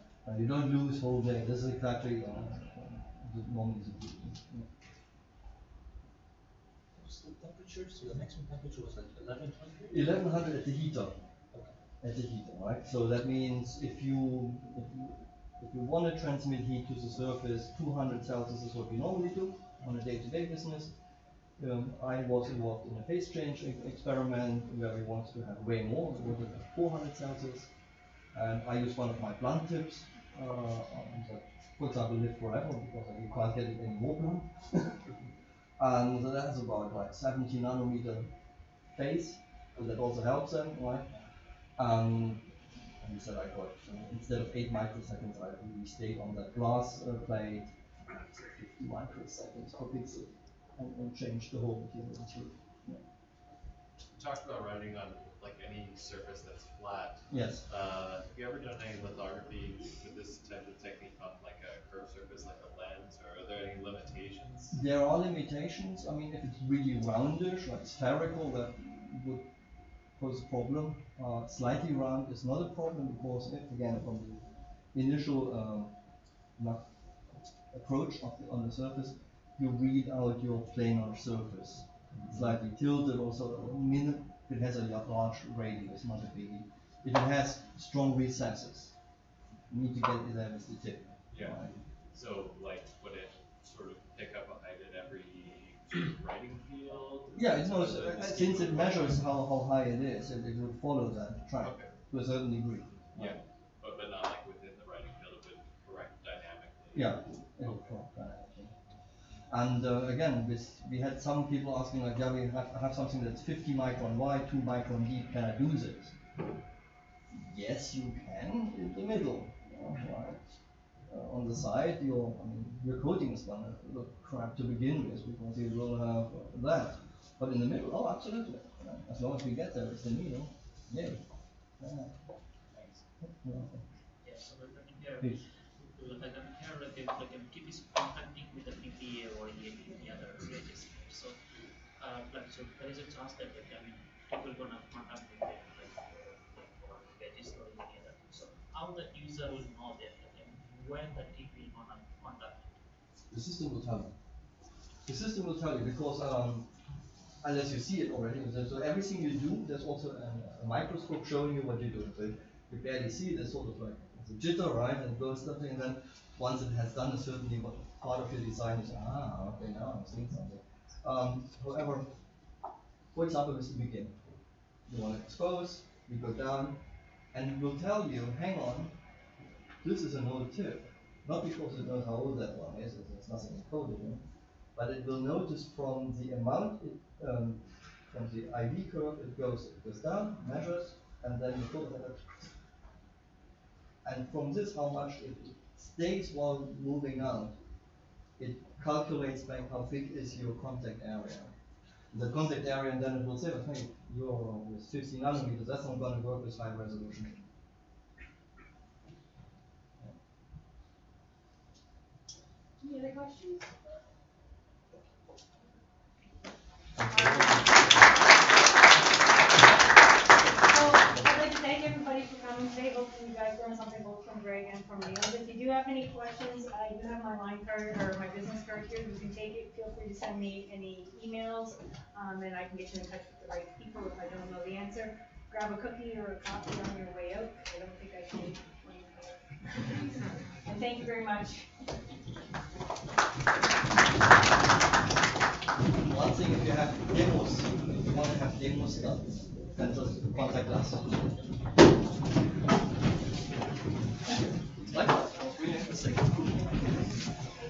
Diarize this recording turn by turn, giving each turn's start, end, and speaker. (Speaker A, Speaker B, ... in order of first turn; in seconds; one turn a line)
Speaker A: 0.2-4.7
Speaker B: 7.0-9.9
Speaker A: 9.9-11.2
Speaker A: 12.0-20.9
Speaker A: 21.6-27.7
Speaker A: 28.3-35.0
Speaker A: 35.8-38.3
Speaker A: 39.0-41.1
Speaker A: 41.8-42.5
Speaker A: 43.0-53.0
Speaker C: 54.1-64.7
Speaker A: 57.3-57.6
Speaker A: 64.7-69.5
Speaker A: 70.2-74.4
Speaker A: 74.9-75.9
Speaker A: 76.6-76.9
Speaker A: 77.7-88.9
Speaker A: 89.7-91.7
Speaker C: 91.3-91.6
Speaker C: 92.1-99.2
Speaker A: 97.3-103.4
Speaker C: 101.6-101.9
Speaker C: 103.2-107.7
Speaker A: 106.9-108.7
Speaker A: 109.5-116.1
Speaker A: 117.3-120.6
Speaker A: 121.1-131.2
Speaker A: 131.8-132.1
Speaker A: 133.2-133.8
Speaker D: 134.2-135.4
Speaker D: 136.0-141.4
Speaker D: 142.0-152.6
Speaker A: 153.3-154.2
Speaker A: 155.1-156.7
Speaker A: 157.4-172.1
Speaker A: 173.1-174.3
Speaker A: 174.9-176.8
Speaker A: 177.3-178.9
Speaker A: 179.8-184.2
Speaker A: 184.8-192.5
Speaker A: 194.0-197.6
Speaker A: 198.4-201.5
Speaker A: 202.1-207.4
Speaker E: 212.8-213.7
Speaker A: 217.0-217.7
Speaker E: 217.1-217.7
Speaker E: 220.6-241.7
Speaker A: 246.0-251.1
Speaker A: 254.9-256.6